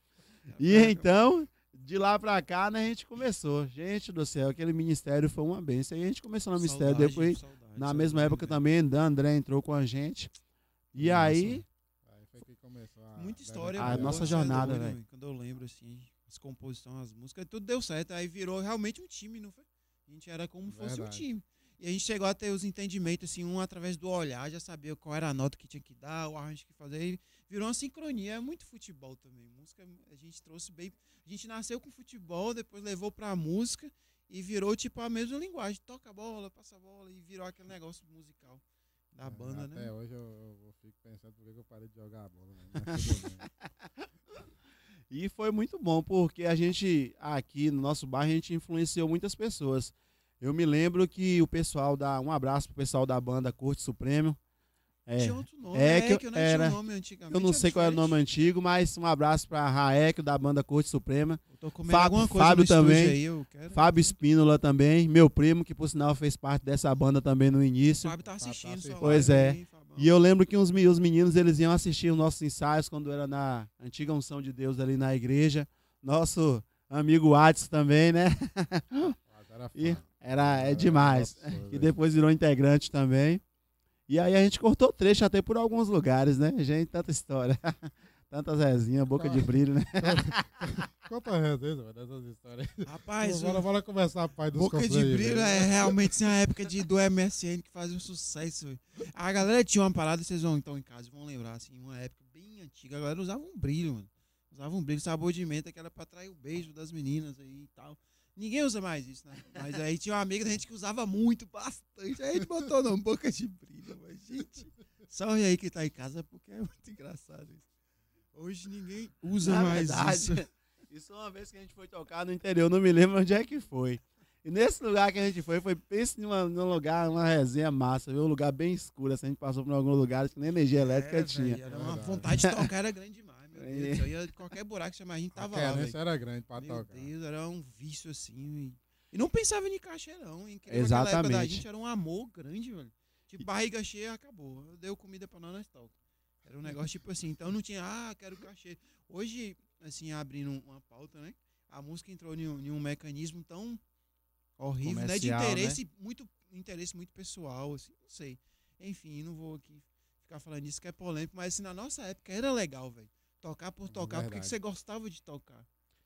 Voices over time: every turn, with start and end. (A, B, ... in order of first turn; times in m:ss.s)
0:00.5-0:01.1 A
0:00.6-0:10.3 B
0:06.6-0:08.6 A
0:10.9-0:11.6 B
0:11.0-0:14.8 C
0:13.2-0:39.9 A
0:13.8-0:15.0 B
0:20.7-0:21.2 C
0:39.2-0:43.5 C
0:45.1-0:54.4 B
0:55.1-0:56.8 B
0:55.2-0:58.2 A
0:57.3-1:03.2 B
1:01.5-1:04.2 A
1:03.7-1:08.2 B
1:08.0-1:10.1 A
1:08.4-1:09.4 C
1:09.0-1:19.2 B
1:19.3-1:22.0 C
1:19.7-1:23.4 B
1:24.1-1:30.6 B
1:30.0-1:36.0 C
1:32.8-1:33.7 A
1:34.5-1:57.7 A
1:58.3-2:00.4 A
1:59.4-2:11.6 B
2:10.8-2:16.0 A
2:11.7-2:12.3 C
2:12.2-2:12.7 B
2:13.6-2:14.1 B
2:15.3-2:17.1 C
2:16.6-2:33.8 A
2:20.7-2:21.6 B
2:34.6-2:45.6 A
2:34.8-2:35.8 B
2:43.9-2:44.5 C